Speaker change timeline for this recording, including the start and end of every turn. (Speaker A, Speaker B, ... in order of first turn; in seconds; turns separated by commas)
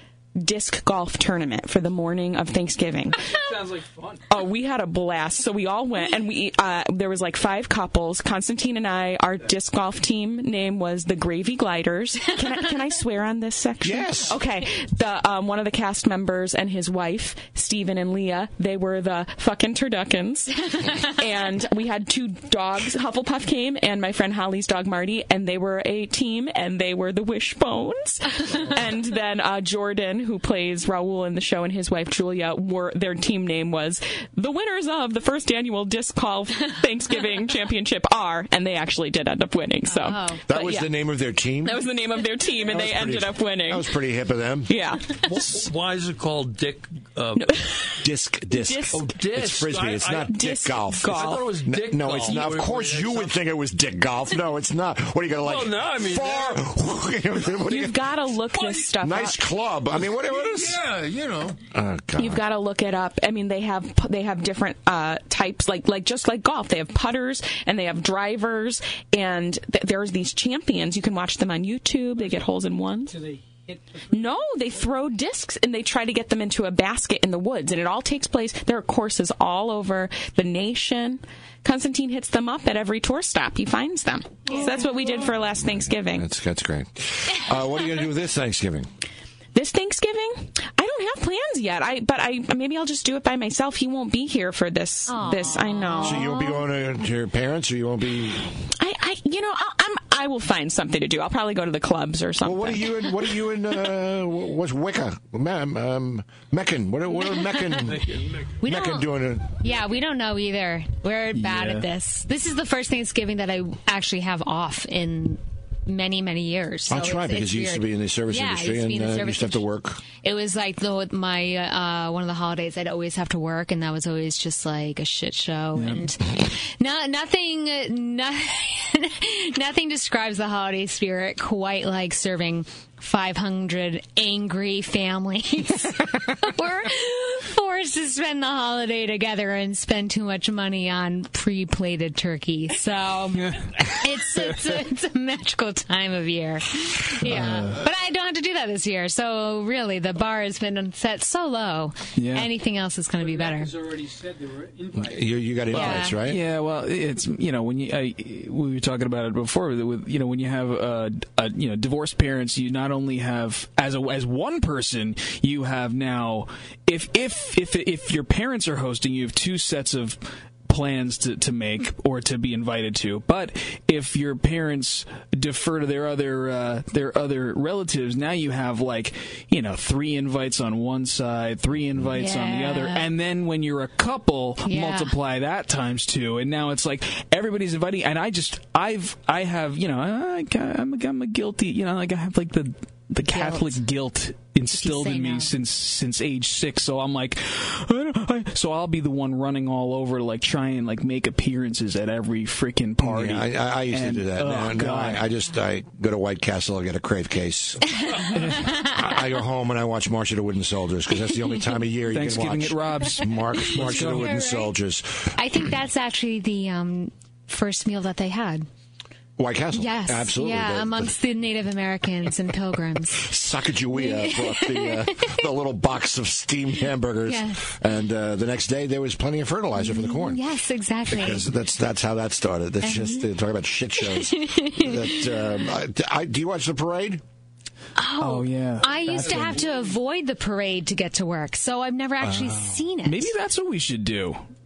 Speaker A: 0.4-3.3, Speaker B: 3.2-4.2, Speaker A: 4.3-40.9, Speaker C: 13.8-14.4, Speaker D: 39.9-40.4, Speaker C: 40.5-41.9, Speaker A: 41.6-43.9, Speaker C: 42.6-44.7, Speaker A: 44.7-45.2, Speaker E: 45.2-47.4, Speaker A: 47.4-48.0, Speaker C: 48.0-58.0, Speaker A: 48.5-49.1, Speaker E: 48.9-50.5, Speaker A: 50.2-52.5, Speaker E: 51.0-53.4, Speaker E: 55.4-56.6, Speaker A: 57.7-59.5, Speaker E: 58.5-58.9, Speaker C: 59.0-60.8, Speaker E: 60.0-61.6, Speaker C: 61.7-62.4, Speaker A: 62.2-73.1, Speaker B: 72.1-74.4, Speaker A: 74.1-86.2, Speaker D: 84.5-85.1, Speaker C: 85.6-88.9, Speaker A: 89.5-96.3, Speaker D: 95.1-96.6, Speaker C: 96.0-98.5, Speaker A: 98.8-103.3, Speaker C: 102.4-109.5, Speaker E: 107.9-108.4, Speaker D: 108.6-109.1, Speaker D: 109.6-119.6, Speaker F: 111.3-111.9, Speaker C: 116.9-120.0, Speaker D: 120.2-153.7, Speaker F: 125.7-126.0, Speaker F: 143.3-144.7, Speaker F: 147.2-147.8, Speaker F: 152.2-152.5, Speaker B: 153.2-155.7, Speaker C: 154.9-156.4, Speaker D: 155.7-156.2, Speaker F: 155.7-205.3, Speaker D: 182.1-183.1, Speaker D: 184.6-185.2, Speaker D: 193.3-193.8, Speaker D: 194.7-195.6, Speaker C: 203.0-208.0, Speaker F: 208.3-208.7, Speaker C: 208.7-215.3, Speaker F: 212.0-214.3, Speaker D: 213.6-214.7, Speaker D: 215.3-218.7, Speaker C: 219.4-221.1, Speaker D: 219.7-223.3, Speaker C: 223.2-230.4, Speaker D: 223.9-225.4, Speaker D: 227.3-227.7, Speaker D: 229.8-231.4, Speaker C: 231.1-237.2, Speaker D: 232.8-233.3, Speaker D: 234.0-235.5, Speaker D: 237.9-243.3, Speaker F: 238.2-239.7, Speaker B: 238.8-240.0, Speaker C: 242.2-242.9, Speaker F: 243.0-244.4